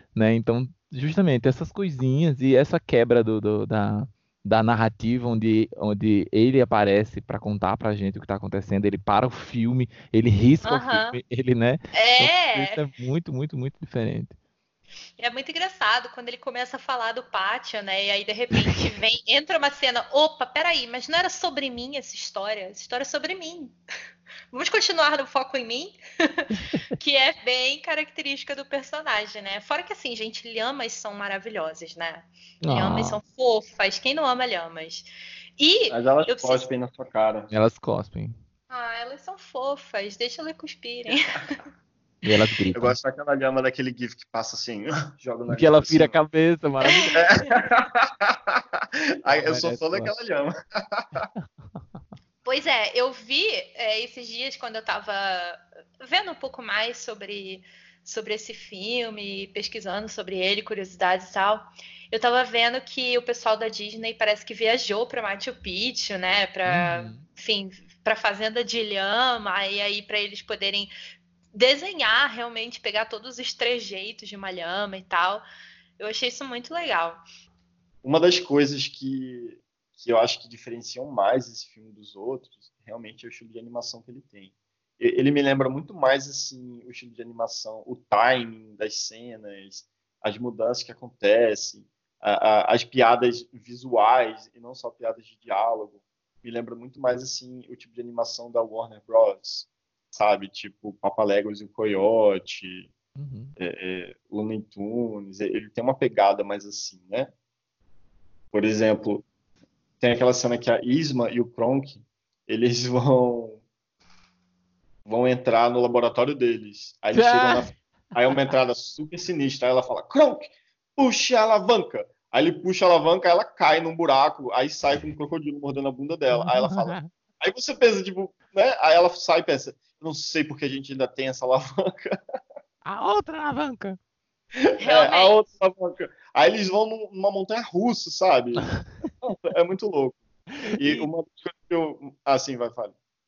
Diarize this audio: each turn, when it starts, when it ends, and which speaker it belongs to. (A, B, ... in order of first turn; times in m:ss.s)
0:00.1-0:14.3 A
0:10.6-0:11.2 B
0:11.9-0:12.8 B
0:15.2-0:23.8 B
0:24.5-0:36.6 B
0:32.6-0:33.2 A
0:35.9-0:37.5 C
0:37.5-0:38.3 A
0:38.7-0:41.6 B
0:42.2-0:43.0 A
0:42.7-0:46.1 C
0:45.5-0:47.2 A
0:47.1-0:51.3 C
0:49.3-0:50.1 A
0:52.4-1:10.9 B
1:06.6-1:07.2 A
1:11.5-1:15.4 B
1:16.0-1:17.2 B
1:18.0-1:42.9 C
1:43.2-1:43.5 A
1:43.6-1:47.3 C
1:48.5-1:49.2 C
1:50.0-1:53.6 C
1:55.0-2:12.2 C
1:57.1-1:57.7 A
2:06.3-2:07.1 A
2:12.8-2:14.0 A
2:14.6-2:18.7 C
2:14.8-2:15.4 B
2:19.2-2:22.9 C
2:20.5-2:21.1 A